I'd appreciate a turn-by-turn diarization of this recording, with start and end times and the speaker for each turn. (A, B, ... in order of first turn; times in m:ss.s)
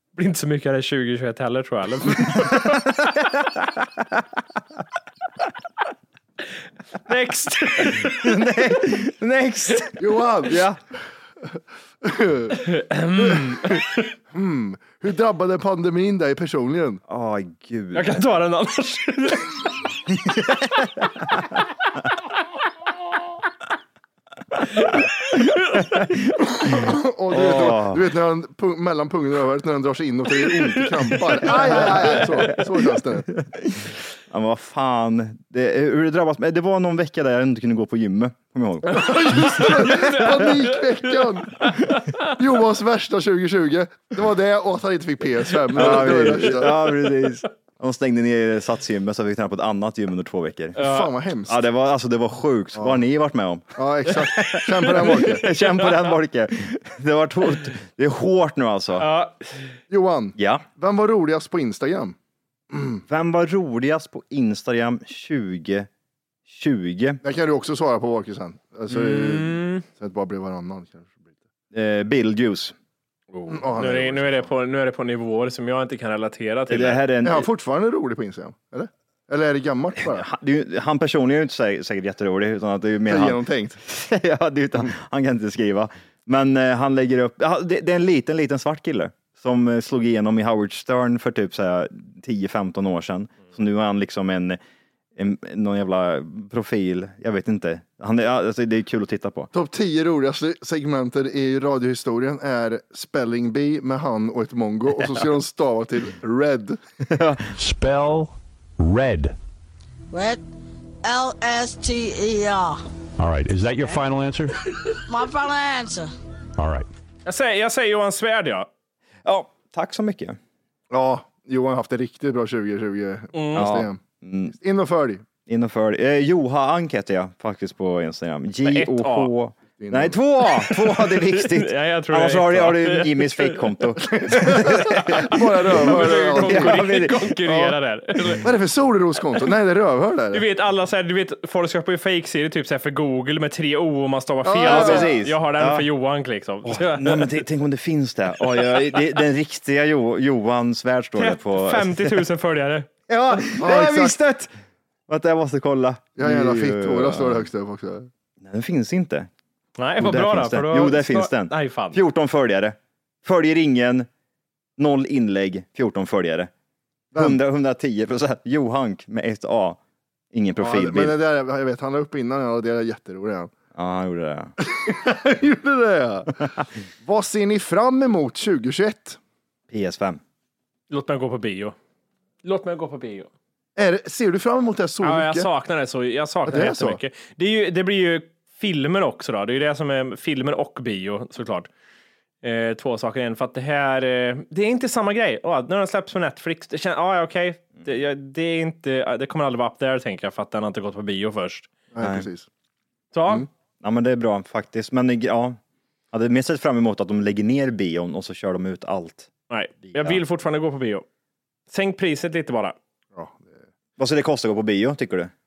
0:00.2-0:02.8 A
0:02.4-0:04.2 B
0:07.0-0:08.5 A
0:07.8-0:10.8 B
0:10.0-0:10.7 C
0:12.0-0:12.6 C
0:12.6-0:14.1 A
0:13.2-0:17.0 C
0:17.1-0:18.1 B
0:17.9-0:19.8 A
0:20.3-0:20.7 B
0:24.8-0:25.9 A
0:26.6-0:33.3 C
0:27.3-0:28.0 B
0:30.4-0:32.5 A
0:31.4-0:32.6 B
0:33.3-0:40.5 B
0:38.9-0:46.9 C
0:39.4-0:40.8 A
0:45.7-0:46.8 A
0:45.7-0:50.8 B
0:50.8-0:51.1 A
0:50.8-0:51.6 C
0:51.5-0:59.1 B
0:53.8-0:55.4 C
0:55.0-0:56.1 A
0:59.0-0:59.7 A
0:59.9-1:02.2 C
1:00.4-1:00.6 B
1:02.7-1:03.0 C
1:03.1-1:05.9 B
1:06.5-1:07.2 B
1:07.2-1:11.3 C
1:08.9-1:09.8 A
1:11.7-1:12.7 B
1:13.3-1:17.0 A
1:13.5-1:14.5 C
1:16.7-1:17.5 B
1:17.2-1:20.2 C
1:20.0-1:34.6 B
1:23.1-1:23.8 C
1:35.2-1:39.5 B
1:39.5-1:46.8 C
1:47.0-1:47.5 B
1:47.6-1:49.3 D
1:50.1-1:50.4 E
1:51.0-1:52.8 E
1:53.2-1:54.5 D
1:55.1-1:56.1 E
1:56.6-1:56.8 D
1:57.2-1:58.7 A
1:59.2-2:00.4 B
2:00.9-2:04.0 C
2:03.3-2:03.7 A
2:03.5-2:04.5 B
2:04.5-2:05.2 C
2:05.5-2:17.6 B
2:08.6-2:09.3 A
2:09.8-2:10.2 C
2:10.4-2:13.9 A
2:14.0-2:16.8 C
2:14.9-2:18.5 A
2:18.3-2:20.4 C
2:20.3-2:27.4 A
2:24.4-2:25.2 C
2:24.6-2:25.9 B
2:26.6-2:32.2 B
2:28.6-2:29.0 A
2:31.2-2:32.9 A
2:33.1-2:34.5 B
2:33.6-2:34.1 C
2:35.1-2:37.5 B
2:36.2-2:38.1 C
2:38.4-2:39.3 B
2:39.8-2:42.0 A
2:40.0-2:44.1 B
2:44.8-2:46.5 B
2:47.1-2:49.8 B
2:50.3-2:51.1 B
2:50.6-2:53.5 C
2:53.7-2:54.5 B
2:54.7-2:59.2 C
2:59.7-3:00.2 B
3:00.9-3:01.7 A
3:02.4-3:03.3 A
3:03.8-3:05.5 C
3:05.0-3:11.7 A
3:06.4-3:07.0 C
3:12.4-3:21.7 A
3:21.9-3:22.5 C
3:22.0-3:22.3 B
3:23.1-3:23.4 A
3:23.8-3:25.6 B
3:26.1-3:29.3 B
3:29.5-3:31.0 A
3:29.8-3:30.2 B
3:31.7-3:32.8 A
3:33.1-3:33.6 C
3:34.0-3:35.3 B